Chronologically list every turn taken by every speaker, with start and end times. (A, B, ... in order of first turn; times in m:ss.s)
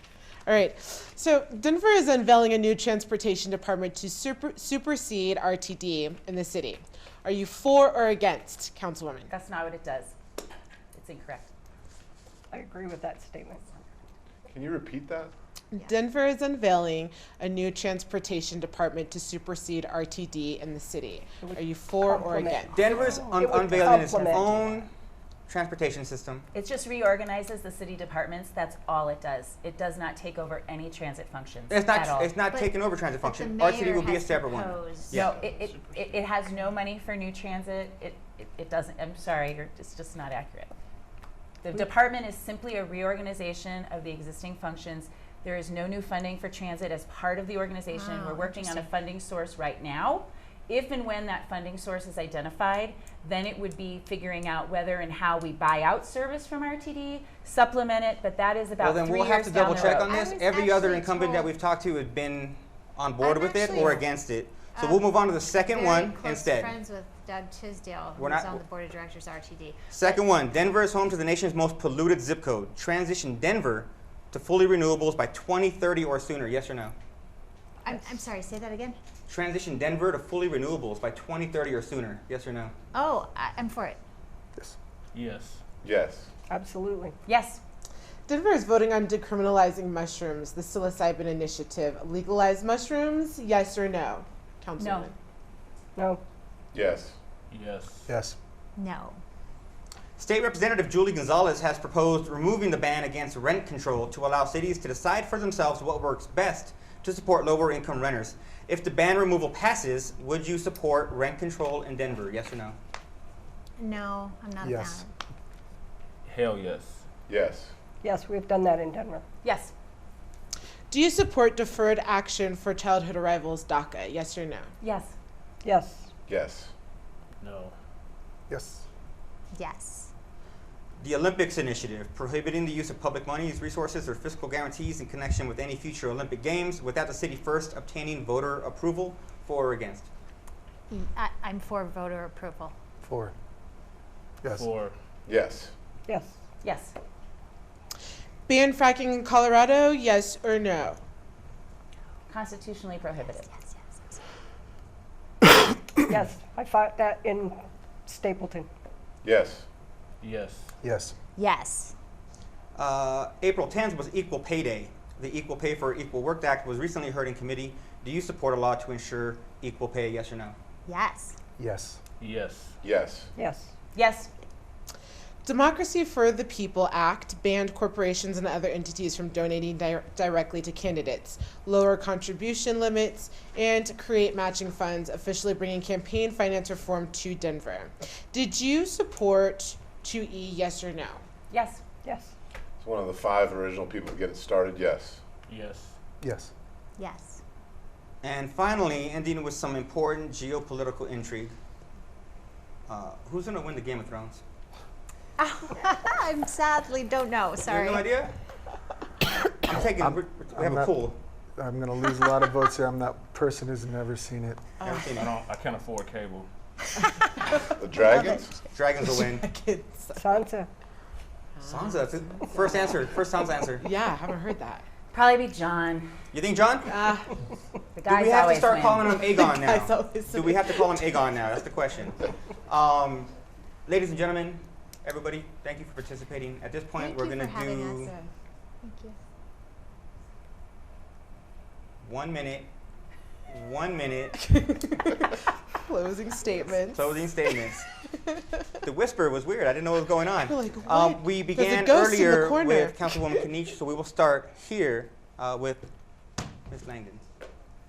0:00.5-0:09.3 A
0:09.3-0:10.2 B
0:10.9-0:11.5 B
0:12.5-0:13.6 C
0:14.5-0:15.3 D
0:15.7-0:22.8 A
0:21.4-0:24.8 C
0:22.7-0:24.9 E
0:25.5-0:26.5 E
0:26.5-0:32.3 B
0:31.7-0:35.3 E
0:32.5-0:35.2 F
0:35.1-0:40.7 B
0:41.6-1:00.1 B
0:47.9-0:48.9 F
0:58.8-1:06.7 E
0:59.6-1:01.5 F
1:03.2-1:04.1 F
1:04.8-1:10.2 F
1:08.2-1:08.6 E
1:09.9-1:16.9 E
1:17.8-1:19.0 F
1:19.3-1:22.7 E
1:22.9-1:24.0 F
1:25.1-1:25.6 G
1:25.8-1:26.3 D
1:26.5-1:27.2 C
1:27.3-1:27.6 B
1:28.3-1:35.2 A
1:34.8-1:35.1 B
1:36.0-1:36.2 C
1:36.7-1:37.2 D
1:37.5-1:38.1 G
1:38.1-1:38.4 H
1:38.8-1:39.2 F
1:40.2-1:52.8 E
1:53.8-1:55.1 F
1:54.6-1:55.0 H
1:56.2-1:57.1 G
1:57.3-1:57.7 D
1:58.0-1:59.2 C
1:59.4-1:59.7 B
2:00.9-2:04.7 A
2:04.8-2:05.1 B
2:05.6-2:06.1 C
2:06.3-2:06.7 D
2:07.4-2:07.8 G
2:08.5-2:08.8 H
2:09.5-2:10.1 F
2:11.0-2:20.1 E
2:20.9-2:22.7 F
2:23.0-2:23.3 H
2:24.4-2:24.7 H
2:24.5-2:25.0 G
2:25.3-2:25.7 D
2:26.1-2:26.3 C
2:26.6-2:27.0 B
2:28.5-2:31.0 A
2:32.3-2:33.5 B
2:33.5-2:34.2 F
2:36.0-2:38.7 C
2:39.2-2:39.6 D
2:40.2-2:40.7 G
2:40.8-2:41.1 H
2:41.4-2:41.9 F
2:42.8-2:50.5 E
2:50.9-2:51.4 F
2:51.6-2:52.0 H
2:52.2-2:52.8 G
2:52.8-2:53.3 D
2:53.4-2:53.7 C
2:53.9-2:54.3 B
2:55.4-3:11.2 A
3:11.5-3:11.8 B
3:12.0-3:12.3 C
3:12.8-3:15.2 D
3:15.5-3:16.0 G
3:16.2-3:16.5 H
3:17.0-3:17.4 F
3:18.2-3:21.5 E
3:22.9-3:24.4 E
3:25.4-3:28.1 F
3:27.6-3:28.3 E
3:29.6-3:31.2 E
3:29.9-3:34.6 H
3:34.8-3:35.2 A
3:34.8-3:35.3 E
3:35.1-3:36.5 G
3:37.8-3:38.6 D
3:38.7-3:39.4 E
3:39.0-3:40.4 A
3:40.2-3:40.7 C
3:41.6-3:43.1 A
3:41.6-3:43.9 E
3:43.8-3:44.8 A
3:45.1-3:46.1 B
3:46.3-3:46.9 E
3:46.9-3:47.3 A
3:47.9-3:49.1 B
3:48.0-3:53.3 E
3:49.1-3:51.0 A
3:53.9-3:58.1 E
3:57.0-3:58.3 F
3:58.8-3:59.2 F
4:02.0-4:02.7 E
4:03.5-4:04.4 E
4:04.3-4:08.6 A
4:06.5-4:07.9 E
4:08.8-4:15.9 E
4:10.4-4:13.5 A
4:16.7-4:17.2 E